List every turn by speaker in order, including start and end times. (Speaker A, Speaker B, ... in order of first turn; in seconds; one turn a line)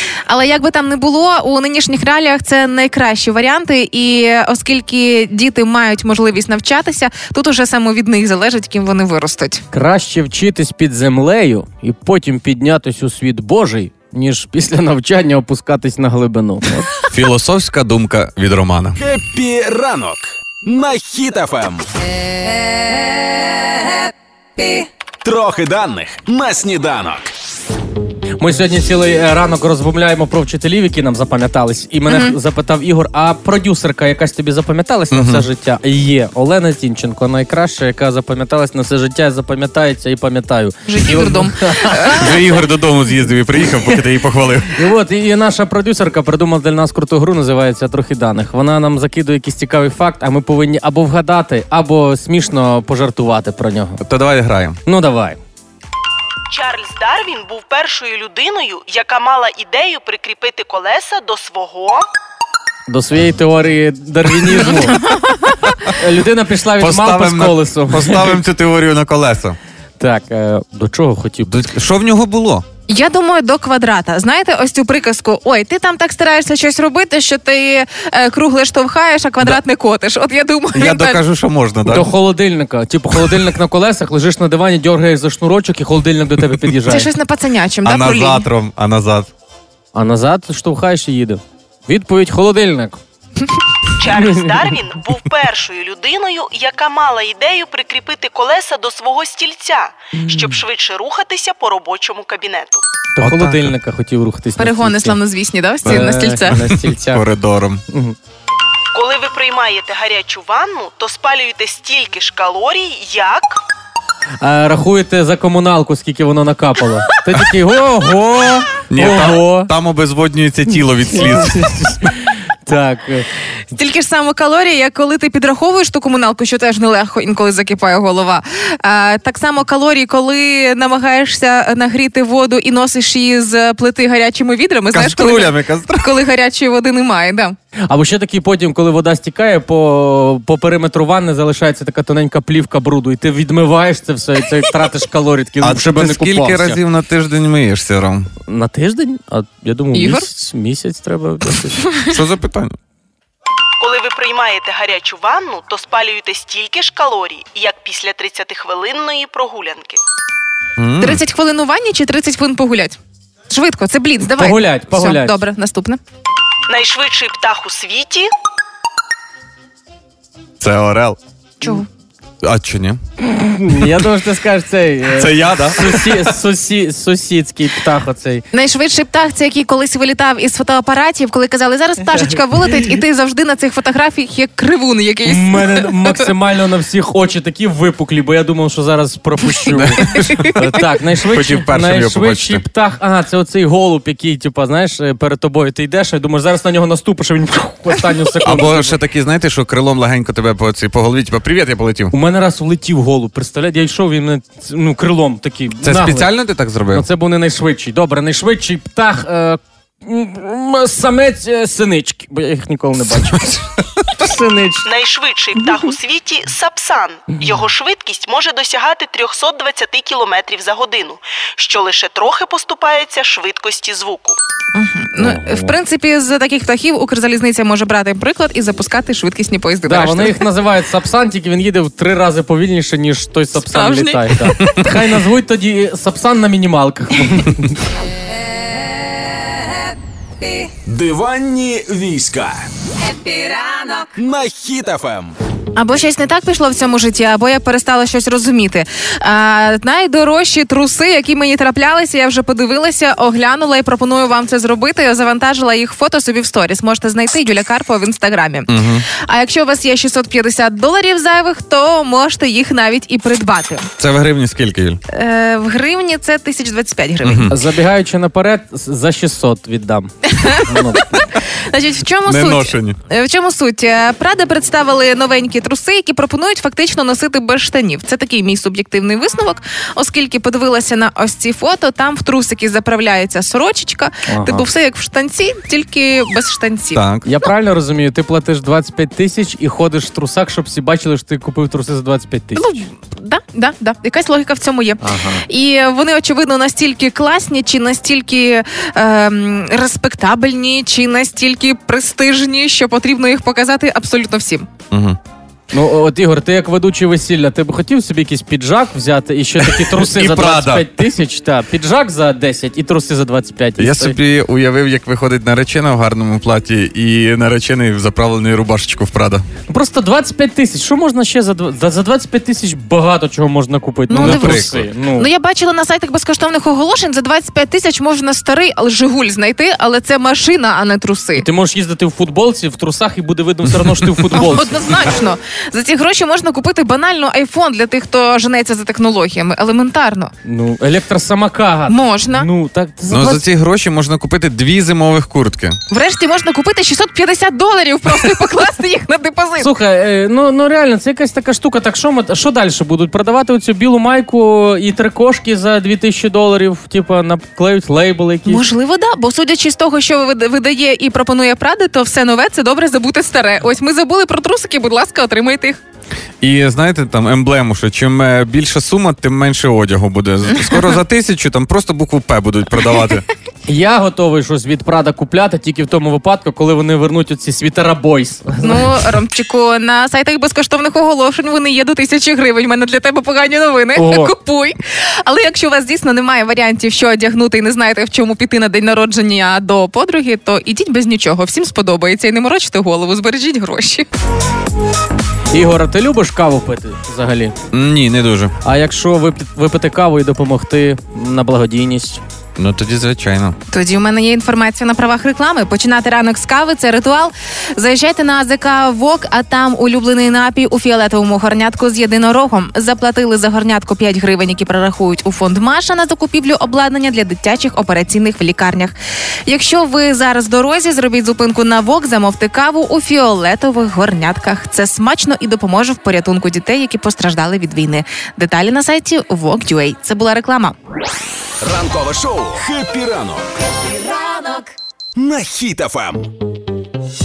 Speaker A: 0.3-9.6
Speaker B: 9.7-16.9
Speaker C: 17.1-19.0
Speaker D: 19.0-21.9
Speaker D: 25.2-27.3
Speaker B: 28.4-42.2
Speaker A: 32.1-32.4
Speaker C: 35.1-35.5
Speaker A: 40.9-42.4
Speaker C: 42.1-44.8
Speaker B: 44.7-54.0
Speaker C: 54.0-54.8
Speaker B: 54.9-55.4
Speaker E: 56.5-62.1
Speaker B: 62.9-65.0
Speaker A: 64.7-65.6
Speaker B: 65.9-68.3
Speaker C: 66.8-69.6
Speaker B: 70.0-71.5
Speaker C: 71.5-72.7
Speaker A: 72.9-81.2
Speaker C: 80.7-82.1
Speaker B: 81.8-87.1
Speaker A: 86.9-88.5
Speaker C: 87.8-89.3
Speaker B: 90.0-93.0
Speaker E: 94.0-102.8
Speaker B: 94.2-94.5
Speaker B: 103.2-105.2
Speaker C: 103.2-103.7
Speaker A: 104.6-106.6
Speaker B: 105.9-107.2
Speaker C: 105.9-107.8
Speaker B: 107.9-108.2
Speaker E: 108.9-113.6
Speaker B: 114.4-119.7
Speaker C: 118.9-121.9
Speaker B: 121.1-123.3
Speaker A: 123.7-137.6
Speaker C: 134.9-136.2
Speaker B: 137.9-146.8
Speaker C: 145.6-148.3
Speaker B: 148.5-151.9
Speaker A: 149.9-150.3
Speaker C: 152.1-152.8
Speaker E: 153.8-160.0
Speaker C: 160.8-161.2
Speaker A: 161.0-163.0
Speaker A: 163.5-166.0
Speaker B: 164.2-165.4
Speaker E: 166.7-168.3
Speaker C: 170.6-171.2
Speaker A: 171.6-171.9
Speaker C: 172.4-173.0
Speaker B: 173.2-178.4
Speaker C: 175.1-176.3
Speaker A: 178.5-186.3
Speaker B: 185.3-199.0
Speaker C: 189.7-192.6
Speaker C: 198.4-202.1
Speaker B: 202.1-206.3
Speaker C: 205.8-207.1
Speaker B: 206.9-214.9
Speaker E: 214.8-224.4
Speaker A: 224.8-230.4
Speaker B: 225.2-225.7
Speaker B: 229.8-237.8
Speaker A: 233.7-234.8
Speaker F: 240.4-240.7
Speaker D: 240.9-242.7
Speaker F: 243.0-244.1
Speaker D: 244.2-245.3
Speaker A: 245.8-263.9
Speaker C: 258.7-259.1
Speaker C: 264.0-265.0
Speaker A: 265.1-267.5
Speaker C: 267.2-267.5
Speaker B: 267.5-271.1
Speaker A: 270.3-287.0
Speaker C: 272.2-273.0
Speaker B: 284.3-284.6
Speaker C: 286.9-287.3
Speaker B: 287.2-292.6
Speaker A: 292.6-304.7
Speaker B: 295.0-295.4
Speaker C: 304.9-305.2
Speaker B: 305.7-314.2
Speaker C: 309.6-310.9
Speaker C: 313.8-319.4
Speaker B: 319.7-325.3
Speaker A: 324.1-331.5
Speaker C: 324.1-324.9
Speaker B: 331.4-334.8
Speaker C: 333.8-334.3
Speaker A: 334.3-340.3
Speaker B: 340.4-343.4
Speaker A: 341.9-342.5
Speaker C: 343.1-345.8
Speaker A: 345.9-349.7
Speaker B: 349.6-358.6
Speaker A: 358.5-365.8
Speaker C: 366.4-373.2
Speaker B: 373.7-378.8
Speaker A: 378.6-394.1
Speaker B: 384.0-384.3
Speaker B: 395.5-397.6
Speaker C: 397.7-398.5
Speaker B: 398.6-402.2
Speaker C: 402.6-403.6
Speaker A: 403.7-418.9
Speaker A: 419.5-430.8
Speaker D: 431.6-433.5
Speaker F: 433.7-434.7
Speaker D: 435.2-436.3